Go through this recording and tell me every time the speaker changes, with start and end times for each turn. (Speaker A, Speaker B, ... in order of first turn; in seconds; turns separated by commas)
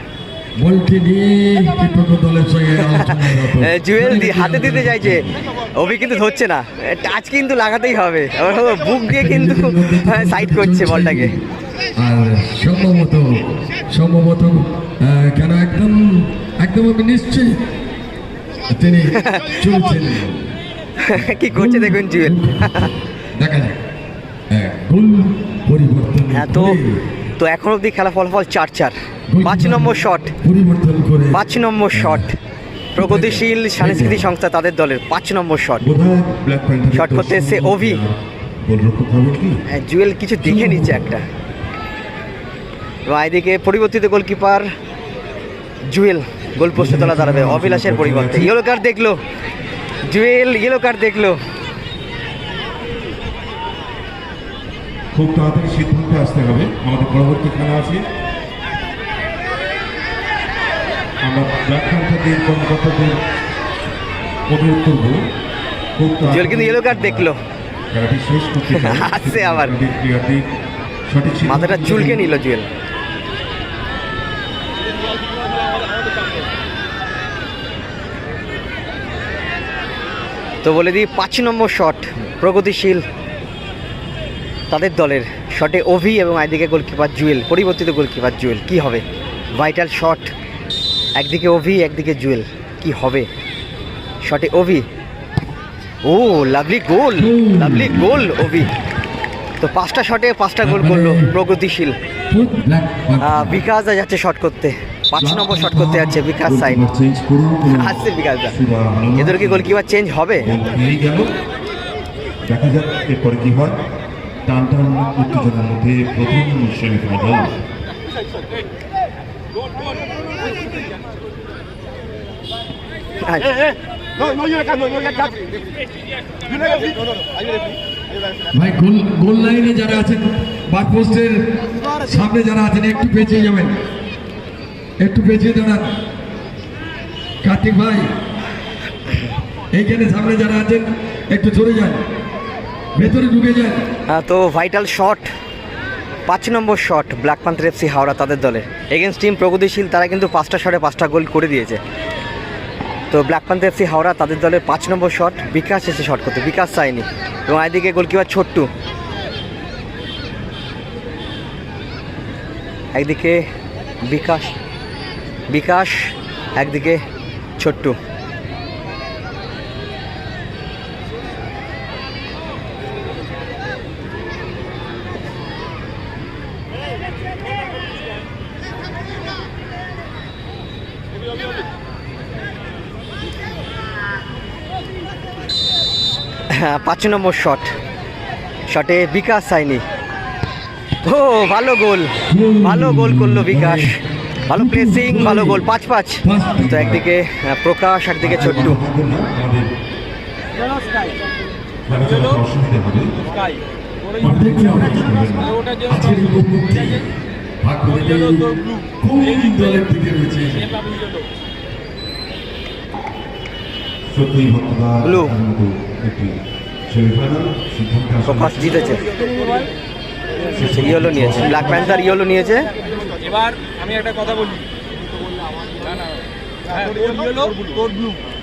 Speaker A: 0.6-5.3, Speaker B: 2.8-5.2, Speaker B: 5.8-11.3, Speaker A: 9.1-11.4, Speaker A: 12.0-17.6, Speaker A: 18.7-20.6, Speaker B: 19.1-19.6, Speaker B: 21.0-22.9, Speaker A: 21.4-23.8, Speaker A: 24.5-27.0, Speaker B: 26.3-26.8, Speaker B: 27.4-30.3, Speaker A: 29.3-32.2, Speaker B: 31.3-32.3, Speaker A: 33.0-34.2, Speaker B: 33.0-35.9, Speaker C: 35.8-39.6, Speaker B: 36.9-38.0, Speaker B: 39.7-41.2, Speaker A: 40.4-41.0, Speaker B: 43.0-44.7, Speaker B: 45.9-49.2, Speaker C: 46.7-48.5, Speaker B: 50.1-51.4, Speaker C: 55.1-58.0, Speaker C: 61.2-63.2, Speaker C: 64.5-65.2, Speaker C: 66.0-67.3, Speaker B: 66.3-67.4, Speaker C: 67.9-70.5, Speaker B: 68.7-69.8, Speaker C: 71.1-72.3, Speaker B: 71.5-72.7, Speaker B: 80.6-83.0, Speaker B: 84.7-90.3, Speaker B: 91.2-93.3, Speaker B: 94.2-94.9, Speaker B: 96.0-98.7, Speaker A: 97.2-98.4, Speaker B: 99.6-102.0, Speaker A: 100.6-101.3, Speaker A: 102.3-103.6, Speaker B: 103.2-106.8, Speaker C: 105.3-109.7, Speaker B: 107.7-108.6, Speaker B: 109.2-110.5, Speaker C: 110.4-111.3, Speaker C: 112.5-113.8, Speaker C: 114.5-117.6, Speaker B: 123.2-123.6, Speaker A: 128.5-133.8, Speaker A: 135.0-135.9, Speaker A: 137.4-138.1, Speaker A: 139.7-142.0, Speaker A: 142.9-143.9, Speaker B: 144.1-145.3, Speaker B: 146.3-151.8, Speaker B: 153.1-158.7, Speaker B: 162.9-163.4, Speaker B: 164.1-164.6, Speaker B: 165.5-167.0, Speaker B: 167.6-168.0, Speaker B: 186.5-187.7, Speaker B: 188.7-189.8, Speaker B: 191.0-198.8, Speaker A: 192.3-194.0, Speaker A: 194.5-195.7, Speaker A: 196.2-196.8, Speaker C: 196.7-197.0, Speaker C: 198.2-199.7, Speaker A: 198.5-198.7, Speaker C: 201.9-203.2, Speaker C: 204.2-205.6, Speaker A: 204.2-205.0, Speaker D: 205.3-207.0, Speaker A: 205.9-207.1, Speaker A: 207.6-210.7, Speaker D: 207.9-209.8, Speaker D: 210.5-211.2, Speaker C: 214.1-219.0, Speaker B: 215.0-215.3, Speaker B: 218.2-219.0, Speaker C: 220.5-222.0, Speaker B: 220.6-222.7, Speaker D: 223.2-224.7, Speaker D: 225.8-226.2, Speaker D: 226.7-228.1